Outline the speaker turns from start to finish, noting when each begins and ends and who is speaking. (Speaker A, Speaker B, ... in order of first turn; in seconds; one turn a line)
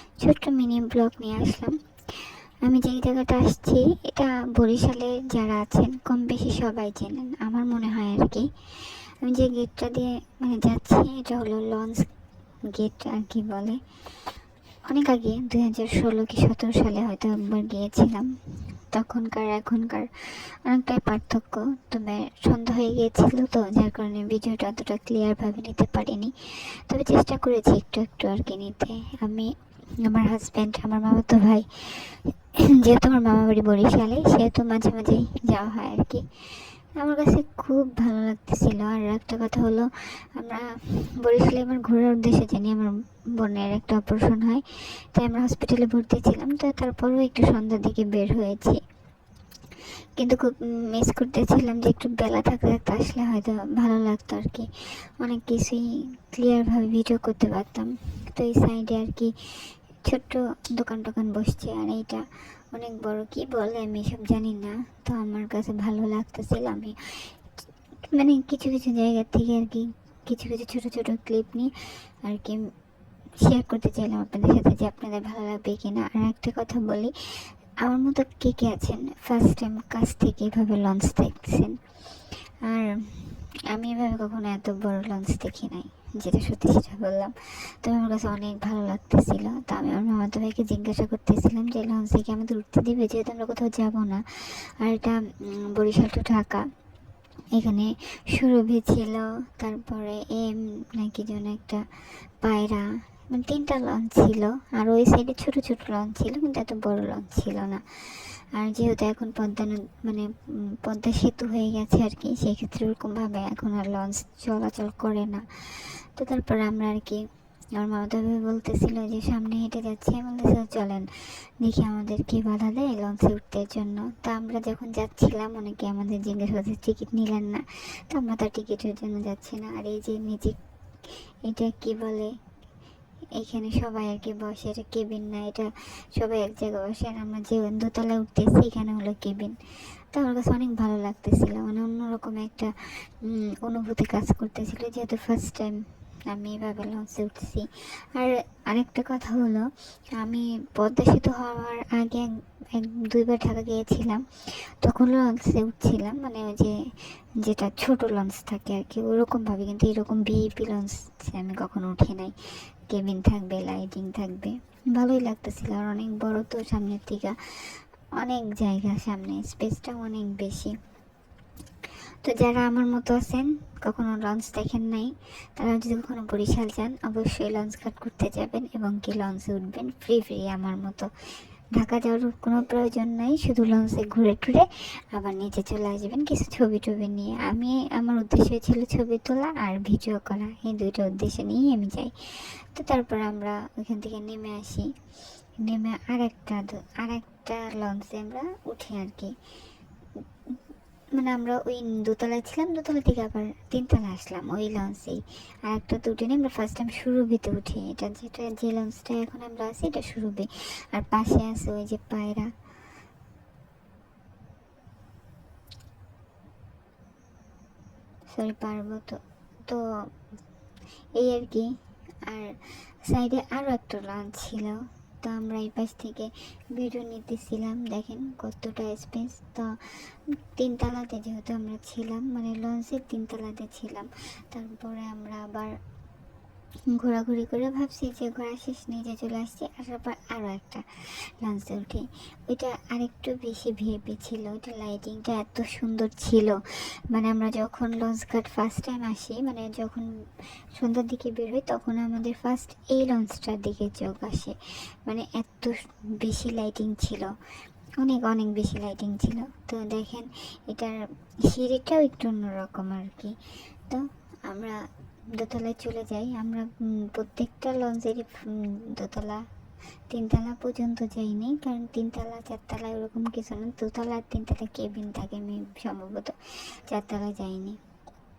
Speaker A: 0.2-12.1
Speaker A: 12.7-13.8
Speaker A: 14.9-18.3
Speaker A: 18.9-48.8
Speaker A: 50.2-67.4
Speaker A: 68.1-72.7
Speaker A: 73.4-81.8
Speaker A: 82.6-96.7
Speaker A: 97.5-101.8
Speaker A: 102.4-121.1
Speaker A: 121.6-130.6
Speaker A: 131.4-132.4
Speaker A: 133.3-139.6
Speaker A: 140.1-170.8
Speaker A: 172.2-181.1
Speaker A: 181.7-194.9
Speaker A: 195.6-199.3
Speaker A: 201.1-212.5
Speaker A: 218.3-220.0
Speaker A: 221.2-221.7
Speaker A: 222.2-235.8
Speaker A: 236.9-246.6
Speaker A: 247.1-257.3
Speaker A: 258.0-263.4
Speaker A: 263.9-269.4
Speaker A: 270.1-277.8